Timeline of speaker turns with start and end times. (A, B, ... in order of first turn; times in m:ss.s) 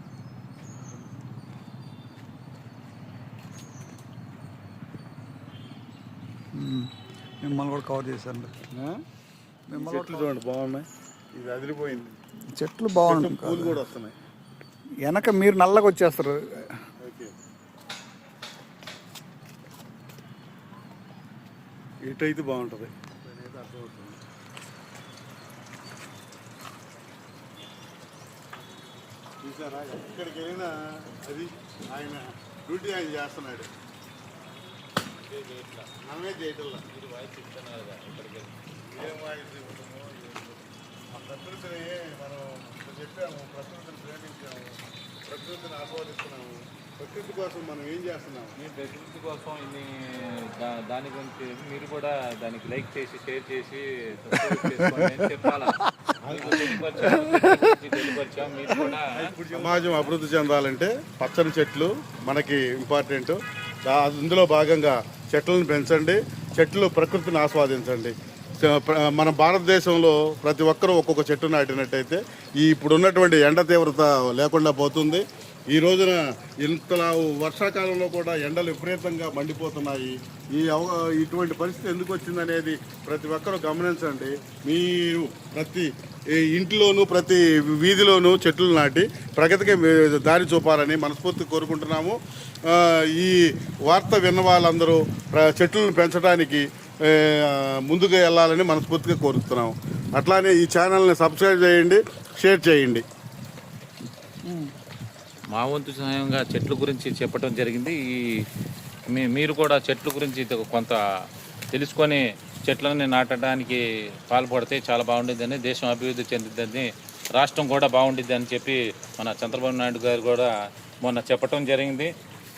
0:06.6-0:06.9 A
0:07.4-0:08.5 A
0:08.7-0:09.0 B
0:09.7-0:10.3 A
0:09.7-0:12.1 B
0:12.6-0:13.8 A
0:13.0-0:14.1 B
0:15.0-0:16.6 A
0:17.0-0:17.3 B
0:22.0-0:24.2 B
0:29.4-0:33.7 B
0:35.2-0:35.9 C
0:36.0-0:36.9 B
0:36.9-0:38.6 C
0:38.8-0:48.6 B
0:48.6-1:00.1 C
0:56.2-0:56.7 B
0:56.8-0:57.7 A
0:59.1-1:43.0 B
1:44.5-1:44.7 A
1:45.5-1:48.0 C
1:49.1-1:51.0 C
1:51.7-2:00.5 C
2:01.0-2:02.1 C